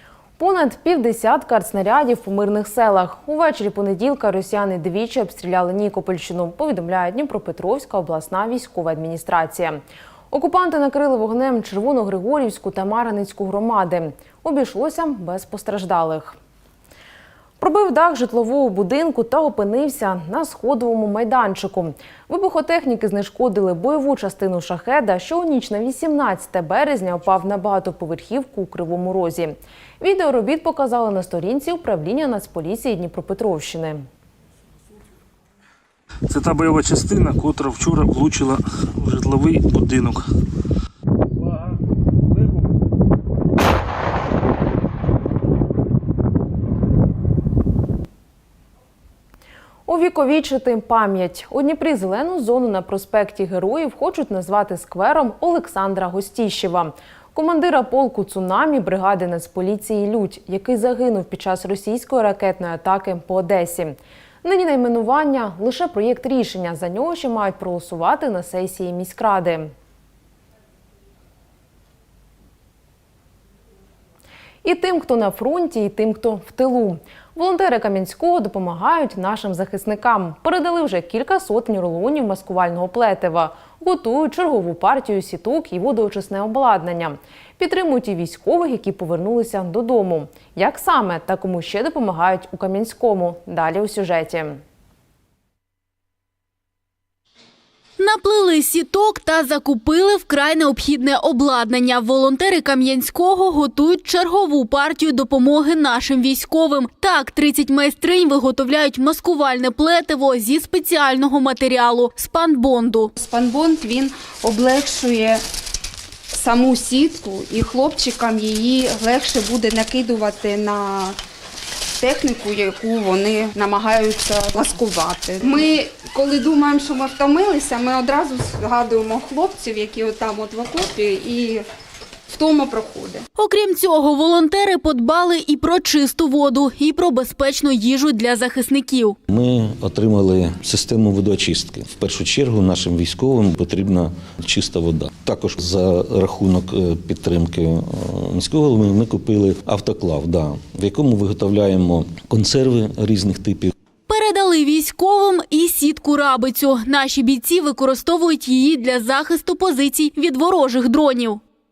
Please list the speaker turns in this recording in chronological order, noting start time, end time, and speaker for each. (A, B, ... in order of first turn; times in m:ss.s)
0:00.4-0:16.4 A
0:17.6-0:34.1 A
0:36.3-0:38.5 B
0:39.1-0:40.2 B
0:49.9-1:09.7 A
1:14.6-1:34.6 A
1:38.0-1:53.1 C
1:53.2-1:55.4 D
1:56.3-2:01.1 D
2:02.0-2:11.6 D
2:12.3-2:13.2 D
2:13.4-2:19.2 C
2:19.3-2:33.7 E
2:34.1-2:41.4 C